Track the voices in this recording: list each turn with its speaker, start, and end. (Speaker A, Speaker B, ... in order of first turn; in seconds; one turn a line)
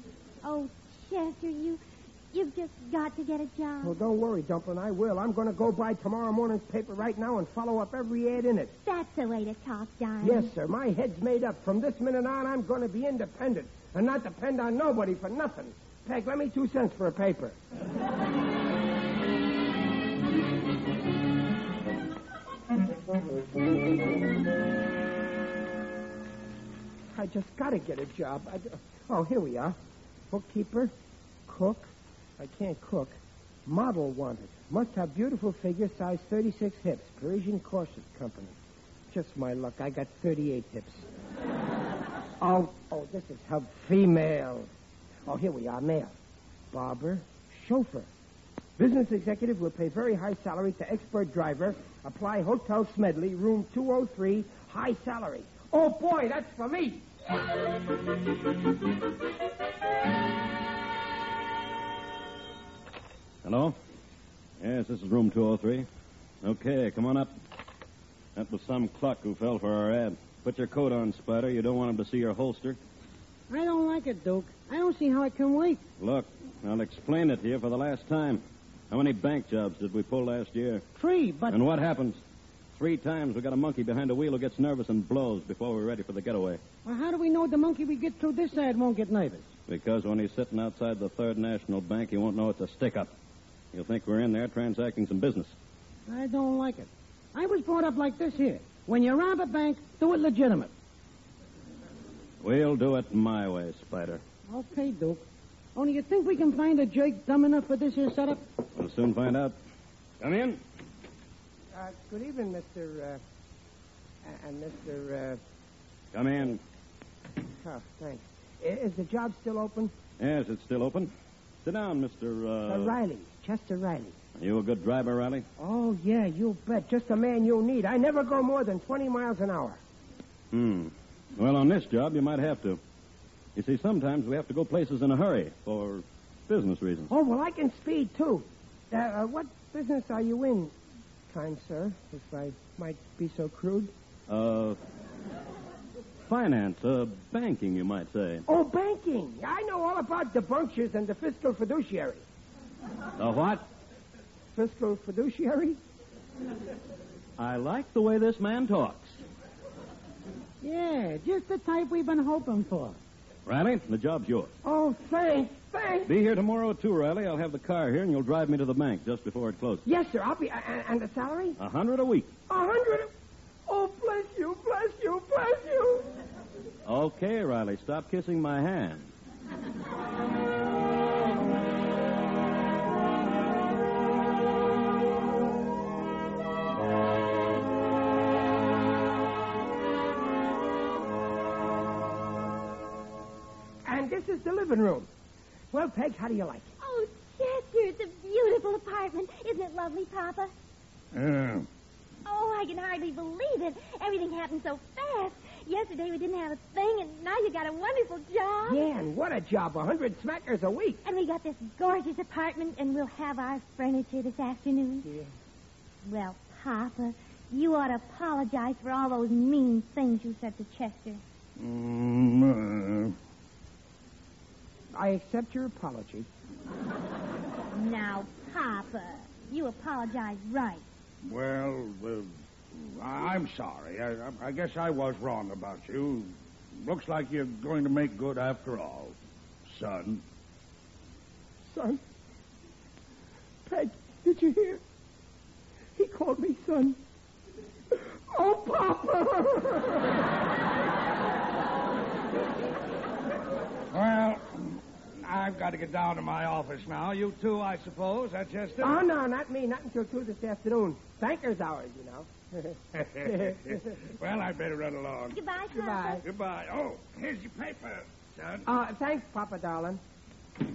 Speaker A: 0.4-1.8
Speaker A: 2.3-4.0
Speaker B: 3.8-8.7
Speaker A: 8.8-10.5
Speaker B: 10.2-17.6
Speaker B: 27.1-29.8
Speaker B: 30.3-30.9
Speaker B: 31.4-38.6
Speaker B: 39.1-41.1
Speaker B: 42.4-44.7
Speaker B: 45.2-46.1
Speaker B: 46.7-48.1
Speaker B: 48.8-57.1
Speaker C: 63.4-63.8
Speaker C: 64.6-65.9
Speaker C: 66.4-67.3
Speaker C: 68.3-72.8
Speaker D: 73.5-75.8
Speaker C: 76.0-80.8
Speaker D: 80.9-81.6
Speaker C: 81.5-82.2
Speaker C: 82.7-86.6
Speaker D: 86.8-89.5
Speaker C: 89.7-93.1
Speaker C: 93.7-95.5
Speaker D: 96.1-100.7
Speaker C: 102.4-104.2
Speaker D: 104.5-105.2
Speaker D: 105.7-108.4
Speaker C: 108.7-109.6
Speaker C: 110.2-110.6
Speaker B: 111.7-113.2
Speaker B: 114.2-115.4
Speaker C: 116.1-116.6
Speaker B: 117.6-119.9
Speaker C: 120.2-121.1
Speaker C: 121.6-122.9
Speaker B: 122.6-124.2
Speaker C: 124.3-125.5
Speaker B: 125.6-129.8
Speaker C: 130.5-132.8
Speaker C: 133.6-137.1
Speaker B: 137.1-140.7
Speaker B: 141.3-143.9
Speaker C: 144.3-144.8
Speaker C: 146.2-148.4
Speaker B: 148.5-152.2
Speaker C: 153.2-153.7
Speaker B: 154.5-155.8
Speaker C: 157.4-159.2
Speaker D: 160.6-163.0
Speaker C: 163.4-164.5
Speaker B: 164.6-166.2
Speaker C: 166.1-169.8
Speaker B: 169.8-171.6
Speaker C: 171.6-172.3
Speaker B: 172.5-173.1
Speaker B: 173.7-176.1
Speaker C: 176.8-179.1
Speaker B: 193.8-195.1
Speaker B: 195.7-196.7
Speaker A: 196.8-200.5
Speaker E: 201.1-201.7
Speaker A: 202.2-208.9
Speaker B: 208.6-211.0
Speaker A: 211.0-215.1
Speaker B: 215.0-215.3
Speaker A: 216.0-221.2
Speaker E: 221.6-223.2
Speaker B: 224.9-226.3
Speaker A: 227.7-230.8
Speaker E: 231.2-240.2
Speaker B: 241.6-242.0
Speaker B: 243.6-244.8
Speaker B: 245.9-247.0
Speaker B: 247.9-250.2
Speaker E: 253.9-259.0
Speaker B: 258.8-263.9
Speaker E: 262.9-265.4
Speaker A: 265.3-266.2
Speaker B: 265.7-266.2
Speaker E: 266.2-268.7
Speaker B: 268.6-270.0